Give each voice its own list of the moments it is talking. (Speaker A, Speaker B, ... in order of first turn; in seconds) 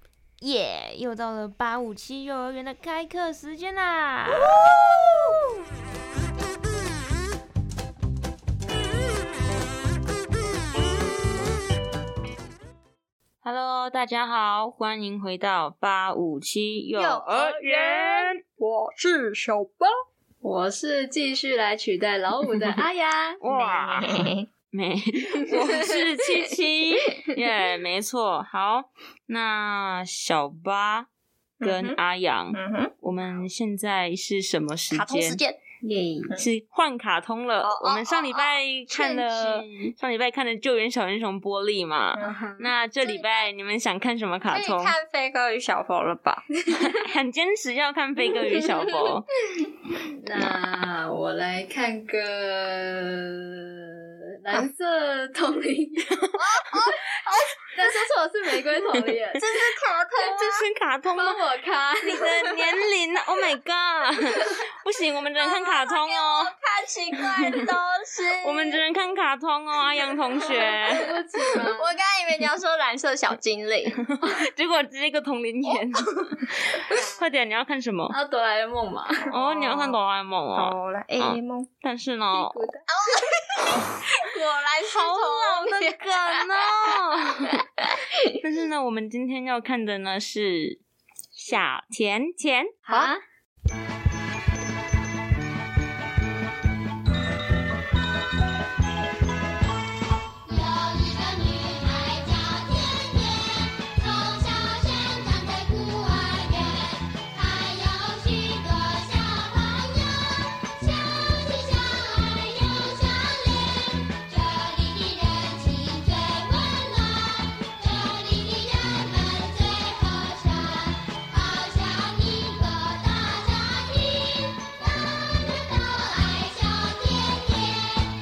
Speaker A: 0.4-4.5, 13.4-18.4, 23.4-31.1, 31.6-35.4, 36.3-45.0, 46.7-49.3, 56.1-56.9, 60.2-61.4, 62.0-66.5, 68.4-71.2, 74.1-78.2, 79.3-82.7, 83.6-84.1, 84.8-87.6, 88.3-90.8, 91.3-92.8
Speaker B: 16.9-19.9, 23.5-24.5, 25.4-26.0, 31.6-32.0, 32.5-32.9, 34.9-35.6, 37.6-39.8, 43.0-43.5, 44.5-46.5, 56.3-57.7, 59.3-60.7, 65.4-68.8, 70.3-71.0, 71.5-74.1, 75.7-76.3, 79.3-79.9, 80.5-81.7, 82.9-87.0, 87.8-88.1, 92.9-93.2
Speaker C: 20.4-23.4, 35.8-36.4, 42.2-42.7, 50.2-56.2, 57.7-59.4, 61.2-62.3, 70.5-72.0, 78.1-79.3, 82.3-82.8, 92.8-93.2
Speaker D: 100.4-128.1